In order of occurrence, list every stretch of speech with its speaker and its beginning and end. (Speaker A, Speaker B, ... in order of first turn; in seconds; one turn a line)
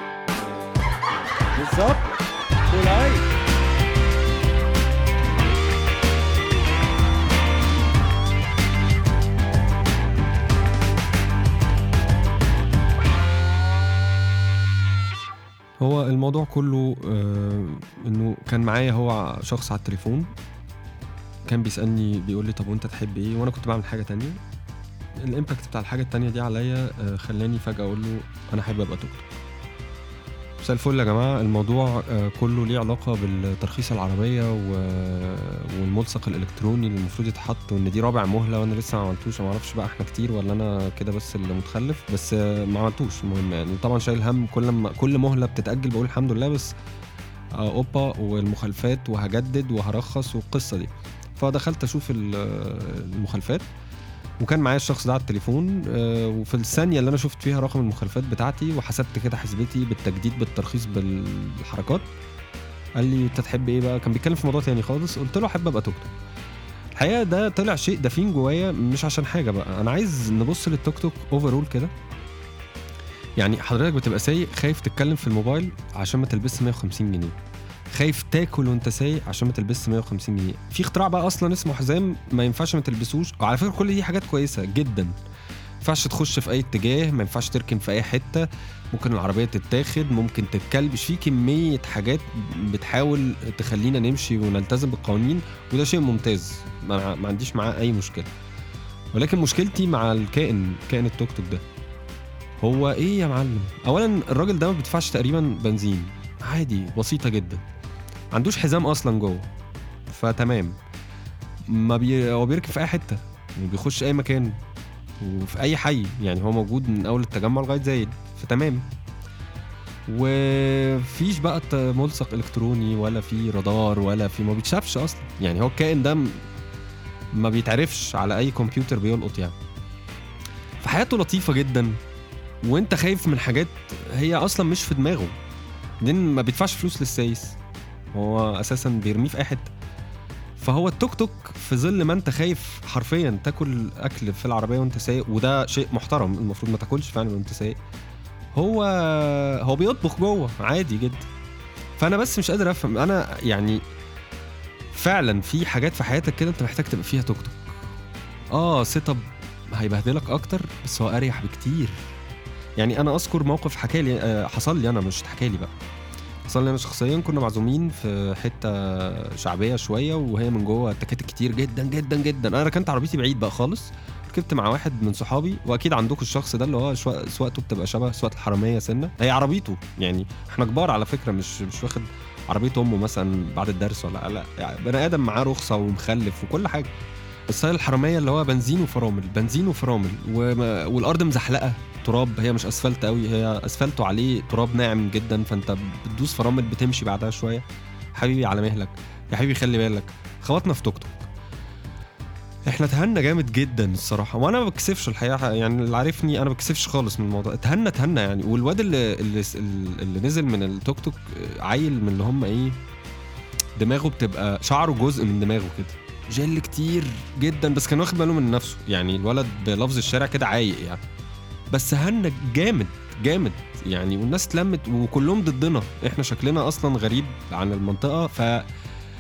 Speaker A: 1.6-2.1
Speaker A: 2.7-3.3
Speaker A: 15.8-20.3
Speaker A: 21.5-24.4
Speaker A: 25.2-29.3
Speaker A: 30.6-46.7
Speaker A: 47.6-53.7
Speaker A: 54.4-62.1
Speaker A: 63.0-66.1
Speaker A: 67.0-71.9
Speaker A: 73.4-77.4
Speaker A: 77.9-85.2
Speaker A: 85.8-98.3
Speaker A: 99.1-101.6
Speaker A: 102.6-107.6
Speaker A: 108.3-109.5
Speaker A: 110.1-110.8
Speaker A: 111.7-114.6
Speaker A: 115.2-118.9
Speaker A: 120.1-126.4
Speaker A: 127.3-129.6
Speaker A: 130.8-132.0
Speaker A: 132.6-135.3
Speaker A: 136.0-137.6
Speaker A: 138.1-139.7
Speaker A: 140.6-147.8
Speaker A: 148.6-151.3
Speaker A: 152.0-153.8
Speaker A: 154.9-157.8
Speaker A: 158.5-162.1
Speaker A: 162.8-165.7
Speaker A: 166.5-186.9
Speaker A: 187.5-201.3
Speaker A: 202.7-212.8
Speaker A: 213.8-221.0
Speaker A: 221.7-228.7